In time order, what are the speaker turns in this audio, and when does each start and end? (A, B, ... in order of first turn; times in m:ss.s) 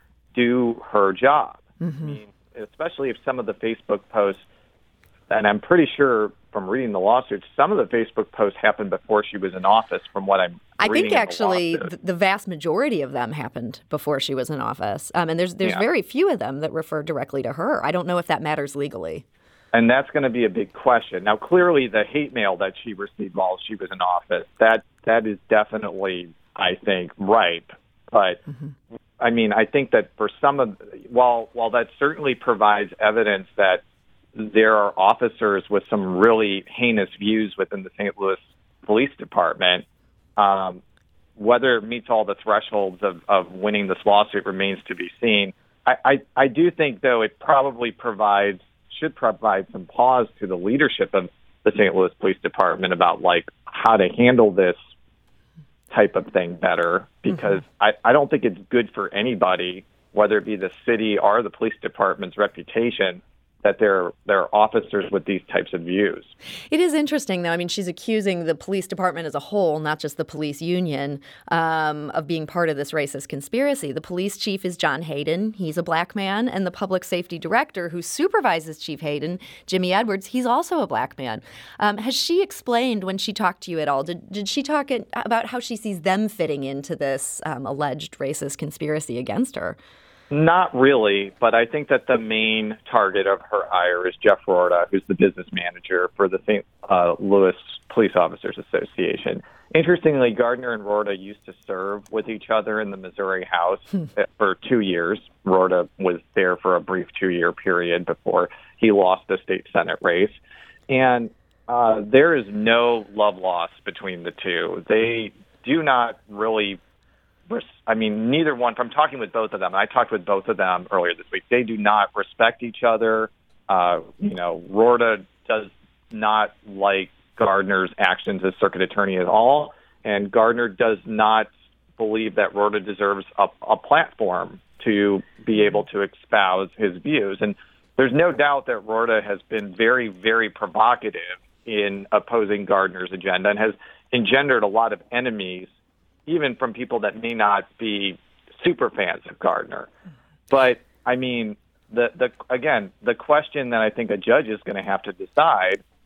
0:00.3-0:04.4 A
0:01.8-0:02.1 B
0:05.3-0:11.9 A
0:10.8-0:19.2 B
0:19.7-0:28.4 A
0:29.2-0:33.8 A
0:34.4-0:39.8 A
0:40.4-0:40.8 A
0:41.4-0:54.8 A
0:55.9-1:06.3 A
1:06.7-1:29.8 B
1:30.3-1:56.8 A
1:57.5-2:25.7 A
2:26.3-2:29.9 A
2:30.5-2:35.8 A